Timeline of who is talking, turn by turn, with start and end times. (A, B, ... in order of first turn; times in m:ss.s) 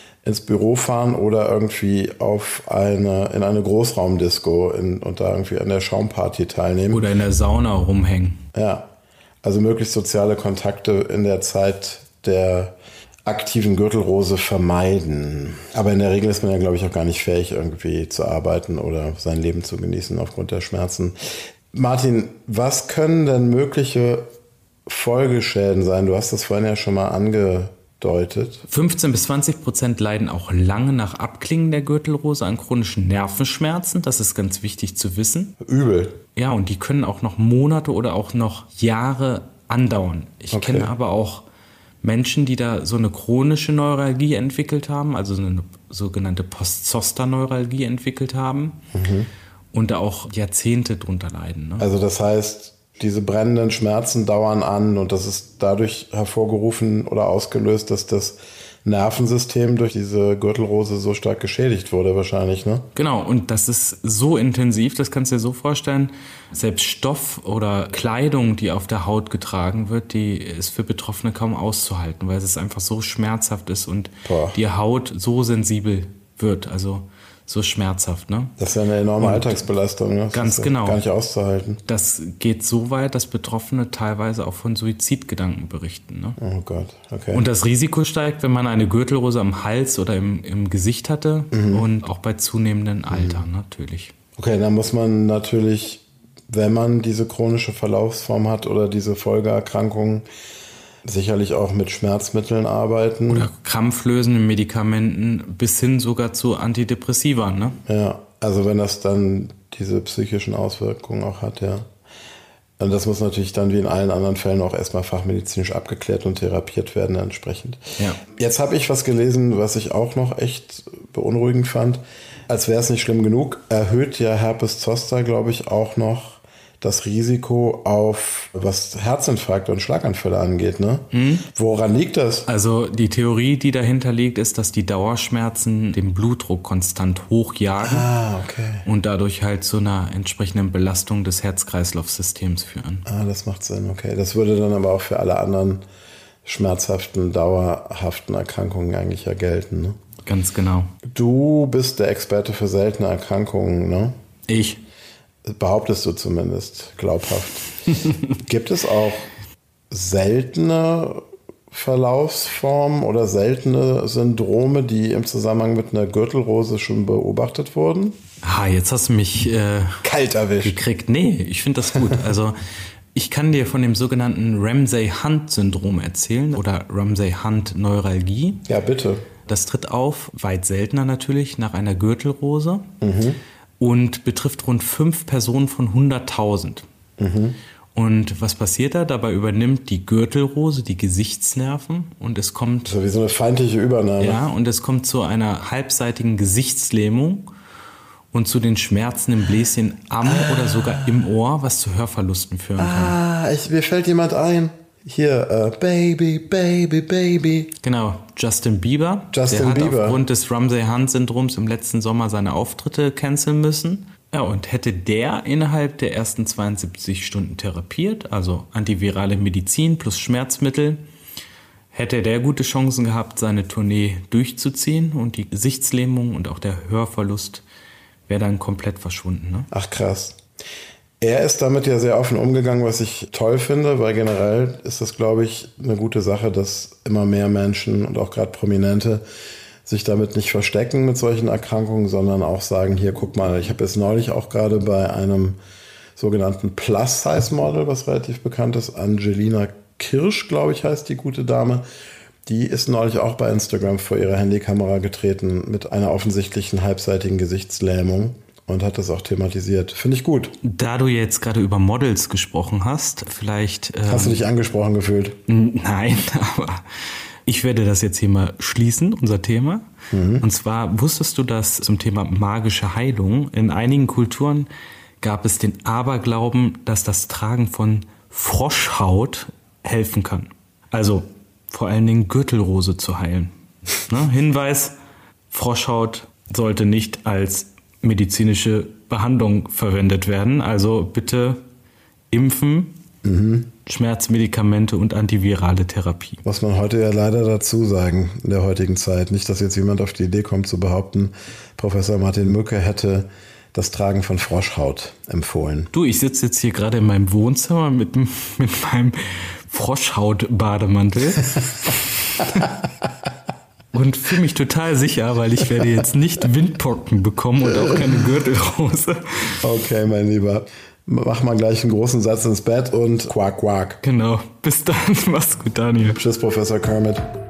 0:00.2-0:07.1 A
0:06.9-0:08.4 B
0:08.5-0:08.9 A
0:09.4-0:24.3 A
0:24.9-0:28.7 A
0:28.7-0:35.6 B
0:35.6-0:36.2 A
0:36.4-0:41.5 B
0:40.5-0:40.9 A
0:42.0-0:48.8 B
0:48.9-0:49.3 A
0:49.7-0:51.9 B
0:51.8-1:02.9 A
1:03.0-1:18.5 B
1:14.2-1:14.6 A
1:18.6-1:21.8 A
1:19.2-1:19.6 B
1:20.3-1:21.0 B
1:21.9-1:26.4 B
1:26.4-1:27.4 A
1:27.3-1:34.1 B
1:31.5-1:31.9 A
1:33.1-1:33.4 A
1:34.4-1:40.3 A
1:41.0-1:43.5 A
1:43.3-1:47.8 B
1:47.9-1:51.9 A
1:52.8-2:12.5 A
2:11.1-2:11.5 B
2:12.5-2:18.1 B
2:17.8-2:18.8 A
2:18.8-2:23.1 B
2:23.1-2:25.8 A
2:26.4-2:30.0 A
2:30.3-2:30.9 B
2:31.0-2:34.2 A
2:34.5-2:34.8 B
2:35.4-2:39.3 A
2:39.9-2:48.2 A
2:48.4-2:50.0 B
2:50.0-2:50.8 A
2:50.6-2:52.6 B
2:53.1-2:58.7 B
2:58.7-2:59.3 A
2:59.5-3:02.9 B
3:03.0-3:03.4 A
3:03.8-3:06.9 B
3:07.2-3:07.6 A
3:08.0-3:13.0 B
3:12.9-3:14.4 A
3:14.2-3:17.5 B
3:18.3-3:23.2 B
3:20.2-3:21.2 A
3:22.8-3:27.7 A
3:27.8-3:41.0 B
3:29.3-3:30.2 A
3:41.9-3:47.6 B
3:48.3-3:49.7 B
3:49.7-3:50.4 A
3:51.2-3:59.2 A
3:59.8-4:05.6 A
4:06.2-4:11.8 A
4:12.5-4:20.6 A
4:20.6-4:24.4 B
4:24.1-4:25.4 A
4:25.5-4:26.8 B
4:27.5-4:29.9 B
4:30.1-4:30.4 A
4:30.4-4:34.7 B
4:35.2-4:45.0 B
4:45.5-4:51.6 B
4:52.3-4:53.0 B
4:53.2-4:53.7 A
4:53.9-4:56.4 B
4:56.4-5:05.9 A
5:05.9-5:12.8 B
5:13.9-5:19.6 B
5:19.6-5:24.0 A
5:24.0-5:26.2 B
5:26.2-5:27.3 A